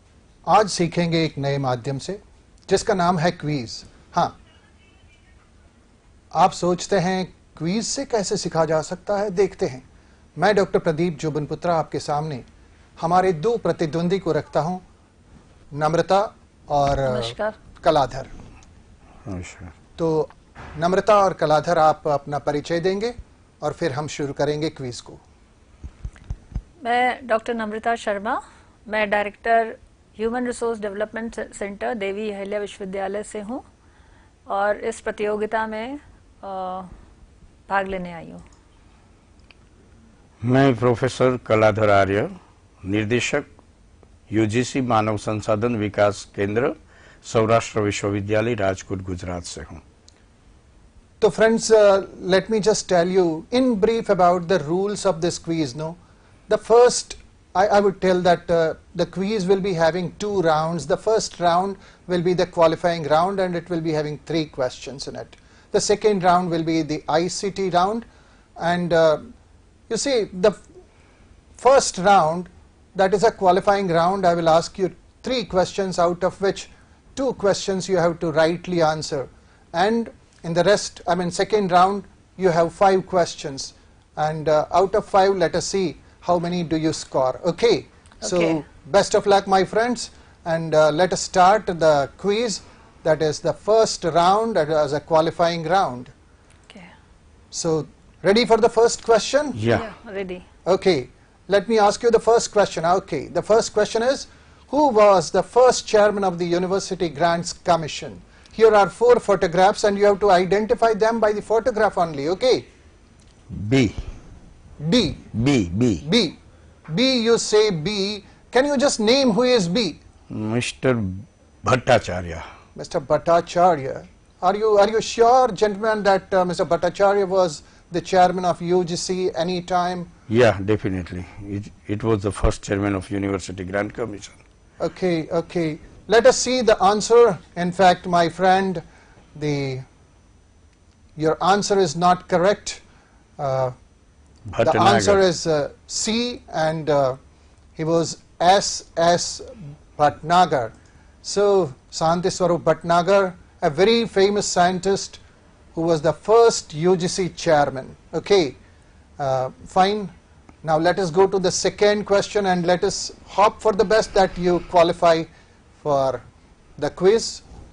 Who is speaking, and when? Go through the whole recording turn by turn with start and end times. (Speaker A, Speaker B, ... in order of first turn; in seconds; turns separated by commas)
Speaker A: 0.5-4.3, Speaker A: 6.3-9.8, Speaker A: 10.4-12.4, Speaker A: 13.0-14.8, Speaker A: 15.7-18.3, Speaker B: 17.0-17.6, Speaker C: 19.2-19.7, Speaker A: 19.9-25.2, Speaker B: 26.8-33.6, Speaker B: 34.5-36.9, Speaker B: 37.7-38.4, Speaker C: 40.4-43.5, Speaker C: 44.3-49.8, Speaker A: 51.2-56.0, Speaker A: 56.5-69.3, Speaker A: 69.9-70.6, Speaker A: 71.6-96.1, Speaker B: 88.2-88.6, Speaker A: 97.5-99.6, Speaker C: 99.5-99.8, Speaker B: 99.7-100.5, Speaker A: 100.7-112.7, Speaker C: 113.5-114.0, Speaker A: 114.8-115.3, Speaker C: 115.3-116.0, Speaker A: 116.0-116.4, Speaker A: 116.9-120.0, Speaker C: 120.3-122.4, Speaker A: 122.7-130.1, Speaker C: 130.3-134.4, Speaker A: 134.8-138.8, Speaker A: 139.3-139.8, Speaker A: 141.2-142.8, Speaker A: 143.4-143.7, Speaker C: 144.5-145.2, Speaker A: 144.6-147.2, Speaker A: 147.8-150.7, Speaker A: 151.2-155.2, Speaker A: 155.7-158.6, Speaker A: 159.2-165.3, Speaker A: 165.8-166.2, Speaker A: 166.8-167.4